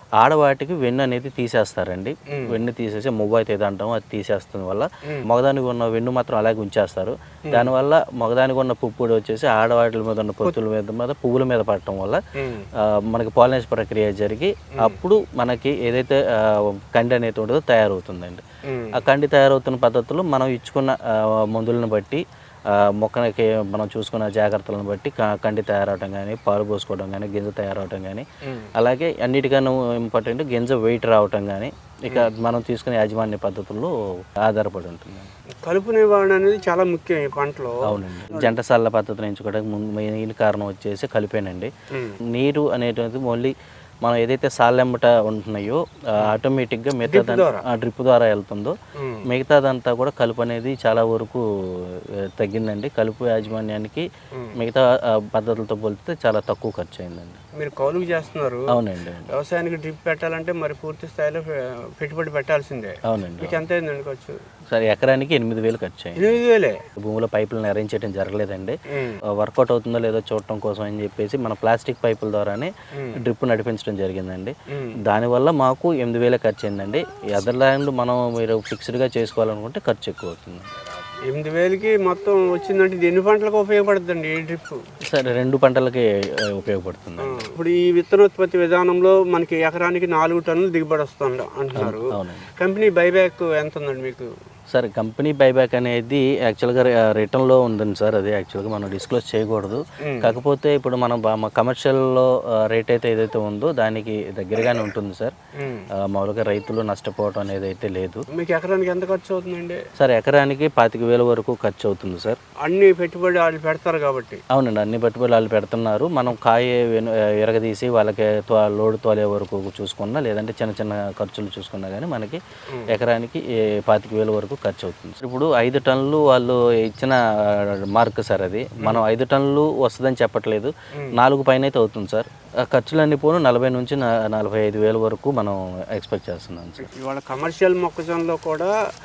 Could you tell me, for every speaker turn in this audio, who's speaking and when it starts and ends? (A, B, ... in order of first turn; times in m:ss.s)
0:00.2-0:12.2 A
0:02.3-0:02.6 B
0:12.4-0:12.7 B
0:12.9-0:18.4 A
0:18.7-0:19.0 B
0:18.9-0:22.2 A
0:23.0-0:28.2 A
0:28.5-0:28.7 B
0:28.8-0:33.9 A
0:34.5-0:35.3 A
0:35.6-0:37.8 B
0:37.9-0:41.7 A
0:42.4-0:48.8 A
0:47.1-0:47.6 B
0:49.0-0:49.3 B
0:49.3-0:51.4 A
0:52.4-0:57.4 A
0:57.6-0:58.8 B
0:58.7-0:59.3 A
0:59.3-1:04.4 B
1:03.1-1:03.6 A
1:04.7-1:06.4 A
1:06.2-1:06.8 B
1:07.0-1:08.8 A
1:08.9-1:09.2 B
1:09.4-1:12.7 A
1:13.2-1:14.5 A
1:14.7-1:15.0 B
1:15.0-1:20.7 A
1:21.3-1:24.8 B
1:25.1-1:27.5 A
1:27.2-1:32.0 B
1:31.8-1:32.5 A
1:32.6-1:34.3 B
1:34.7-1:45.3 A
1:40.0-1:40.4 B
1:45.6-1:45.9 B
1:46.1-1:48.2 A
1:48.4-1:49.8 B
1:50.0-1:52.4 A
1:52.6-1:54.4 B
1:54.5-2:02.4 A
2:02.9-2:16.9 A
2:16.9-2:18.7 B